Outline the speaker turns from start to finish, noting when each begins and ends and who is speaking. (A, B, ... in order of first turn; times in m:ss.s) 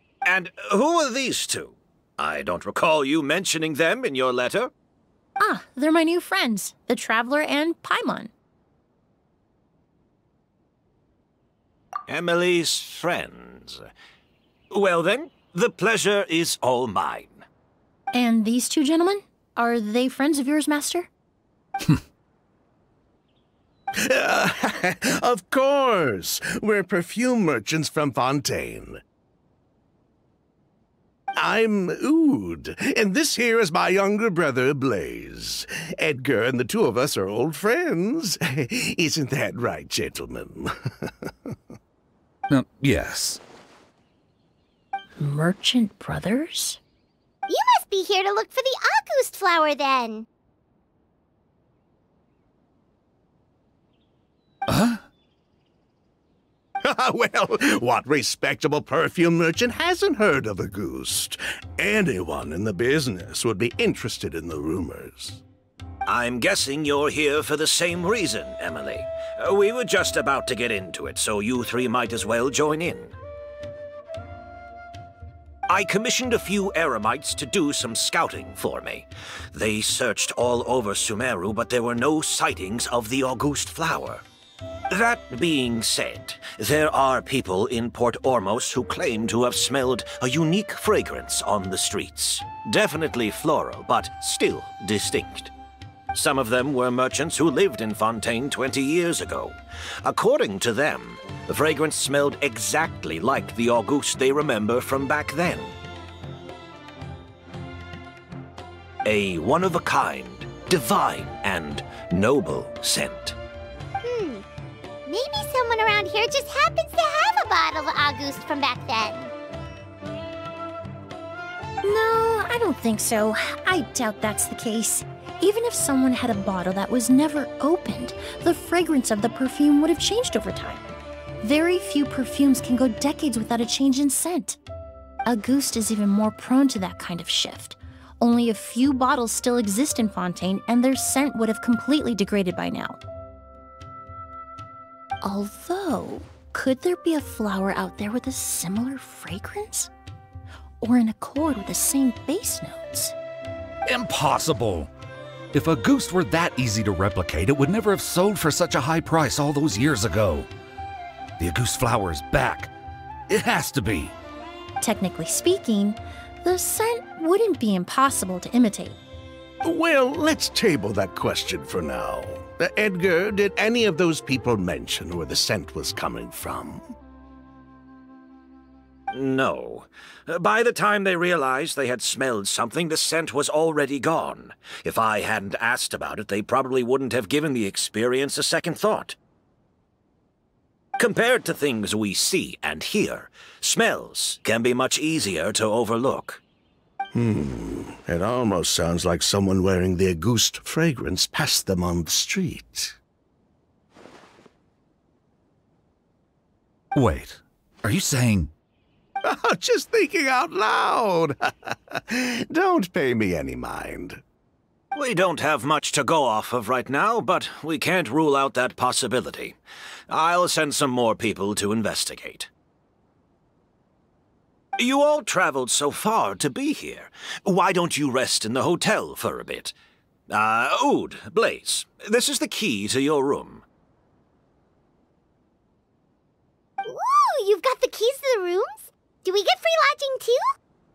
0:00.2-0:04.7 A
0:05.4-0:08.3 B
0:12.1-0:13.9 A
0:14.7-0:17.4 A
0:18.1-0:21.1 B
0:24.0-0:29.0 C
0:31.4-0:41.5 C
0:42.5-0:43.4 D
0:45.2-0:46.8 B
0:47.5-0:50.2 E
0:54.7-0:55.0 D
0:56.8-1:05.4 C
1:06.0-1:13.2 A
1:15.7-1:24.2 A
1:24.9-1:35.5 A
1:36.1-1:45.7 A
1:49.0-1:53.4 A
1:54.0-1:54.4 E
1:55.0-1:59.3 E
2:01.8-2:10.8 B
2:11.4-2:14.6 B
2:15.2-2:23.0 B
2:25.2-2:29.9 B
2:30.8-2:33.1 B
2:33.8-2:34.9 D
2:35.5-2:40.5 D
2:41.4-2:42.7 D
2:43.3-2:44.1 D
2:44.8-2:49.0 B
2:49.6-2:56.8 C
2:59.1-3:09.2 A
3:11.0-3:16.4 A
3:17.1-3:23.0 C
3:26.9-3:28.5 D
3:29.2-3:34.2 C
3:34.9-3:39.6 A
3:40.1-3:42.5 A
3:44.8-3:49.7 A
3:50.3-3:53.6 A
3:56.8-4:00.5 E